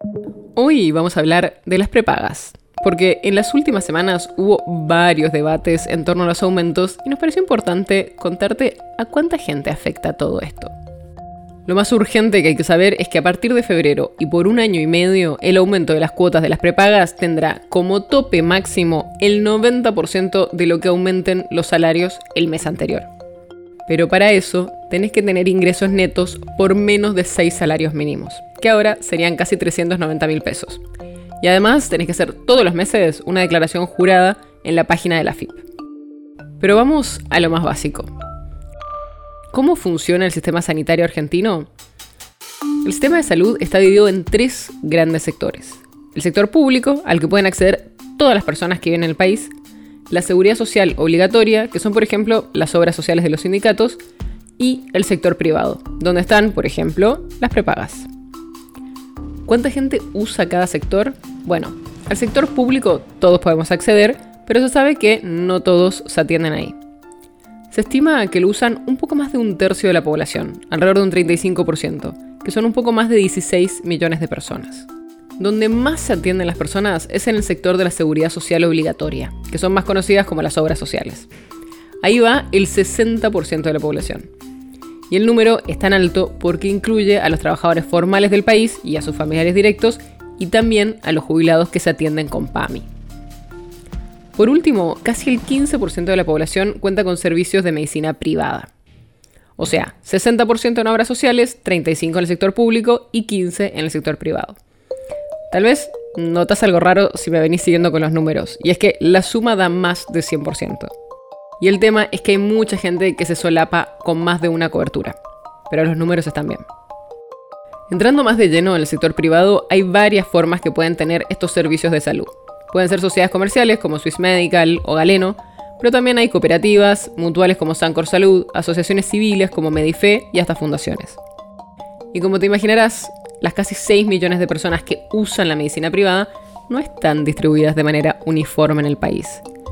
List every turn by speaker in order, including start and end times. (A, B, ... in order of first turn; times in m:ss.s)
0:00.6-0:10.7 A
0:11.6-0:23.1 A
0:23.9-0:30.8 A
0:31.4-0:35.6 A
0:36.6-0:38.1 A
0:39.5-0:41.7 A
0:42.8-0:49.5 A
0:50.1-0:54.0 A
0:54.6-0:58.1 A
0:59.4-1:06.8 A
1:07.7-1:14.9 A
1:15.4-1:21.3 A
1:22.0-1:24.3 A
1:25.1-1:32.9 A
1:34.4-1:38.7 A
1:39.6-1:44.6 A
1:45.5-1:50.9 A
1:51.6-1:55.2 A
1:55.7-1:56.6 A
1:57.9-2:11.2 A
2:12.1-2:19.4 A